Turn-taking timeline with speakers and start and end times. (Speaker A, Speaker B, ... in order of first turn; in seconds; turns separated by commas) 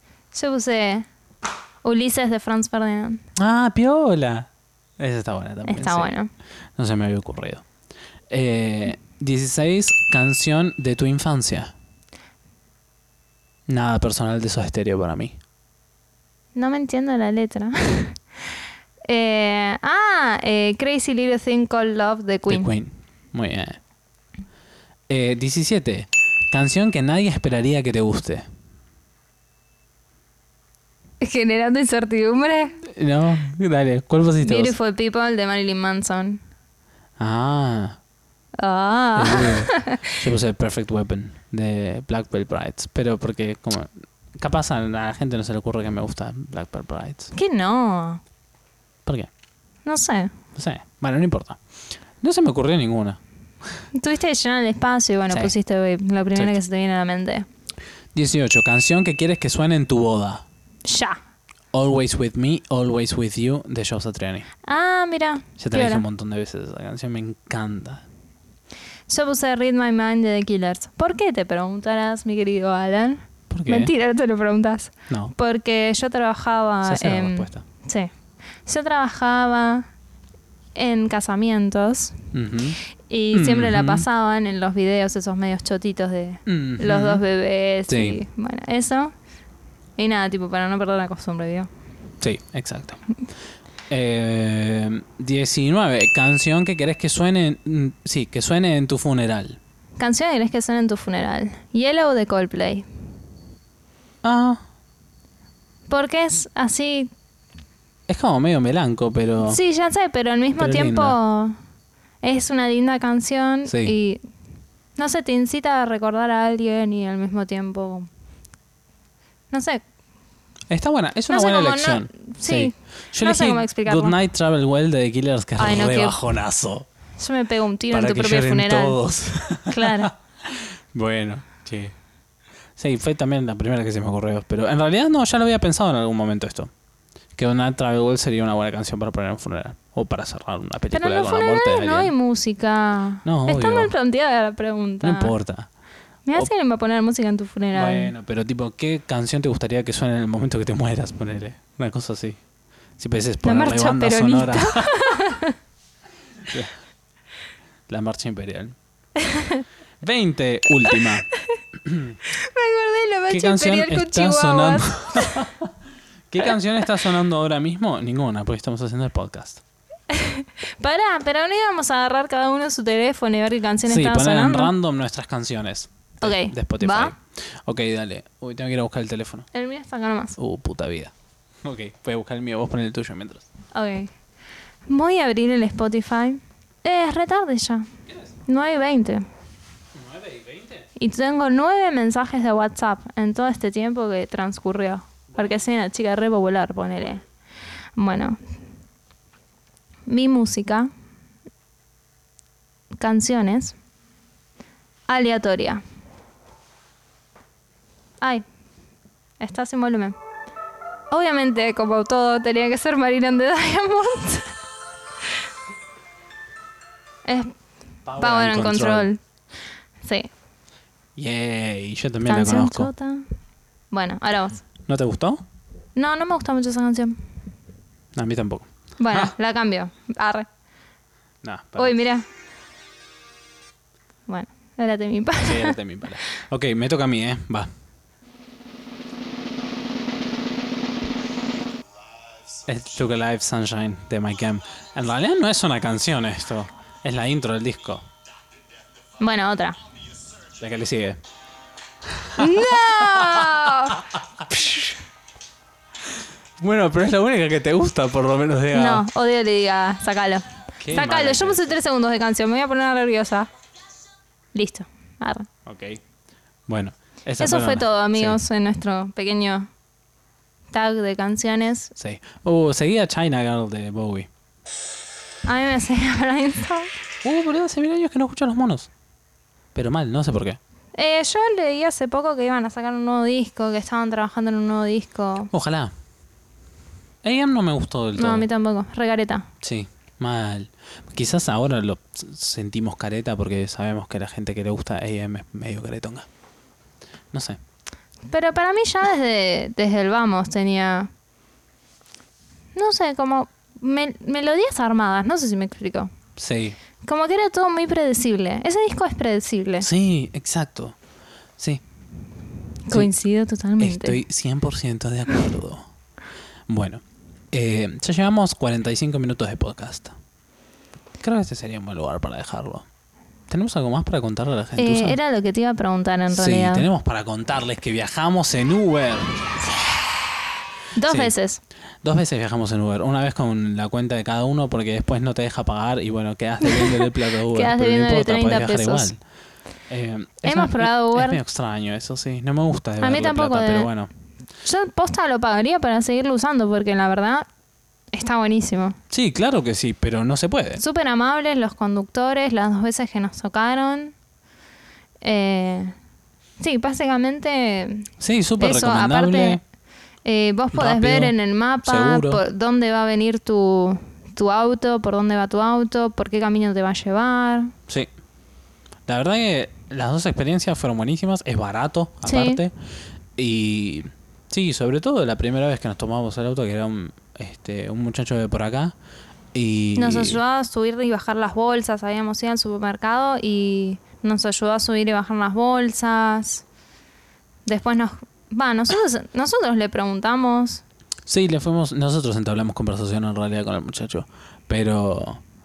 Speaker A: 0.3-1.1, Speaker A: 1.8-3.2, Speaker B: 3.4-6.1, Speaker A: 5.7-6.3, Speaker B: 6.8-7.7, Speaker B: 8.3-11.7, Speaker B: 13.7-15.4, Speaker A: 16.6-18.2, Speaker A: 19.1-22.7, Speaker B: 22.5-23.8, Speaker B: 25.1-28.5, Speaker A: 31.2-32.8, Speaker B: 32.8-34.8, Speaker A: 34.4-36.4, Speaker B: 37.2-38.0, Speaker A: 38.6-40.1, Speaker B: 39.2-47.3, Speaker A: 47.3-48.2, Speaker A: 49.9-50.3, Speaker B: 50.5-51.6, Speaker B: 52.2-53.2, Speaker A: 53.9-57.5, Speaker B: 58.1-60.5, Speaker A: 60.9-61.2, Speaker B: 61.7-64.5, Speaker A: 64.7-66.0, Speaker B: 65.6-68.0, Speaker A: 69.1-78.1, Speaker B: 73.5-73.9, Speaker B: 75.1-75.3, Speaker B: 76.8-77.6, Speaker A: 78.7-79.9, Speaker A: 80.8-82.2, Speaker B: 82.3-82.8, Speaker A: 83.1-89.1, Speaker B: 83.3-84.1, Speaker B: 86.5-87.2, Speaker B: 87.9-88.2, Speaker A: 90.0-91.7, Speaker B: 92.2-93.0, Speaker B: 93.9-99.6, Speaker A: 100.0-102.9, Speaker B: 104.2-104.6, Speaker A: 105.9-107.1, Speaker B: 108.1-109.6, Speaker A: 109.5-111.6, Speaker B: 110.6-111.2, Speaker A: 112.2-114.2, Speaker B: 113.7-114.0, Speaker A: 115.0-118.1, Speaker A: 119.5-119.8, Speaker B: 120.7-126.9, Speaker A: 121.3-124.2, Speaker A: 125.6-126.2, Speaker A: 127.2-129.0, Speaker B: 127.9-131.9, Speaker A: 129.7-130.1, Speaker B: 132.8-136.7, Speaker B: 137.4-142.1, Speaker A: 140.9-145.3, Speaker B: 143.2-143.9, Speaker B: 145.0-145.7, Speaker A: 146.3-148.1, Speaker B: 147.7-152.4, Speaker B: 153.0-155.2, Speaker A: 153.4-155.6, Speaker B: 156.4-156.8, Speaker B: 157.9-158.8, Speaker A: 159.2-159.7, Speaker B: 160.0-162.2, Speaker A: 162.3-165.5, Speaker B: 163.3-165.7, Speaker B: 166.3-169.6, Speaker A: 170.1-174.7, Speaker B: 173.8-179.5, Speaker A: 176.2-177.1, Speaker A: 179.5-180.4, Speaker B: 180.4-181.1, Speaker B: 181.6-183.5, Speaker A: 183.7-184.1, Speaker A: 184.9-187.9, Speaker A: 188.5-189.3, Speaker B: 189.9-190.9, Speaker A: 191.0-197.2, Speaker A: 198.0-198.4, Speaker A: 200.1-200.9, Speaker A: 203.0-203.8, Speaker A: 205.1-205.8, Speaker A: 209.4-210.2, Speaker A: 211.1-214.5, Speaker A: 217.3-217.5, Speaker B: 218.1-219.1, Speaker A: 218.2-219.2, Speaker A: 220.0-220.3, Speaker B: 221.2-222.9, Speaker A: 222.2-223.3, Speaker A: 223.9-224.6, Speaker B: 224.9-225.4, Speaker A: 226.0-227.2, Speaker B: 228.2-229.3, Speaker A: 229.0-230.5, Speaker B: 231.4-232.0, Speaker A: 231.8-232.3, Speaker A: 234.3-235.8, Speaker B: 235.4-237.7, Speaker B: 242.7-248.1, Speaker A: 249.2-249.8, Speaker B: 250.6-251.2, Speaker B: 252.1-255.0, Speaker A: 252.4-254.0, Speaker B: 256.6-259.1, Speaker A: 258.7-263.5, Speaker B: 260.8-261.8, Speaker A: 264.5-265.5, Speaker B: 265.7-266.0, Speaker B: 266.7-268.4, Speaker A: 267.4-269.7, Speaker A: 270.7-271.9, Speaker B: 272.0-274.3, Speaker A: 275.4-276.9, Speaker B: 277.2-278.9, Speaker B: 279.8-280.6, Speaker A: 280.9-285.5, Speaker B: 285.5-285.9, Speaker B: 287.2-288.5, Speaker A: 288.2-289.5, Speaker B: 289.6-296.3, Speaker B: 297.3-297.6, Speaker A: 298.3-301.1, Speaker A: 302.8-306.1, Speaker B: 306.4-306.8, Speaker A: 307.0-309.9, Speaker B: 309.8-311.0, Speaker B: 311.6-311.8, Speaker A: 312.9-314.2, Speaker B: 313.8-315.8, Speaker B: 316.7-320.2, Speaker B: 321.2-322.9, Speaker B: 323.5-325.2, Speaker A: 324.8-326.9, Speaker B: 326.3-330.0, Speaker A: 330.9-331.6, Speaker B: 331.1-331.3, Speaker B: 332.0-339.2, Speaker A: 336.6-339.1, Speaker B: 339.9-344.1, Speaker A: 340.4-341.4, Speaker A: 343.0-343.9, Speaker A: 344.6-347.5, Speaker A: 348.1-349.0, Speaker B: 349.1-350.8, Speaker A: 350.8-354.1, Speaker A: 355.2-355.9, Speaker A: 356.6-359.6, Speaker B: 358.2-359.6, Speaker A: 360.2-367.7, Speaker B: 360.7-362.4, Speaker B: 369.1-372.7, Speaker A: 372.2-372.6, Speaker B: 373.4-378.9, Speaker B: 379.5-380.4, Speaker A: 380.0-386.6, Speaker A: 387.7-390.8, Speaker B: 391.3-395.4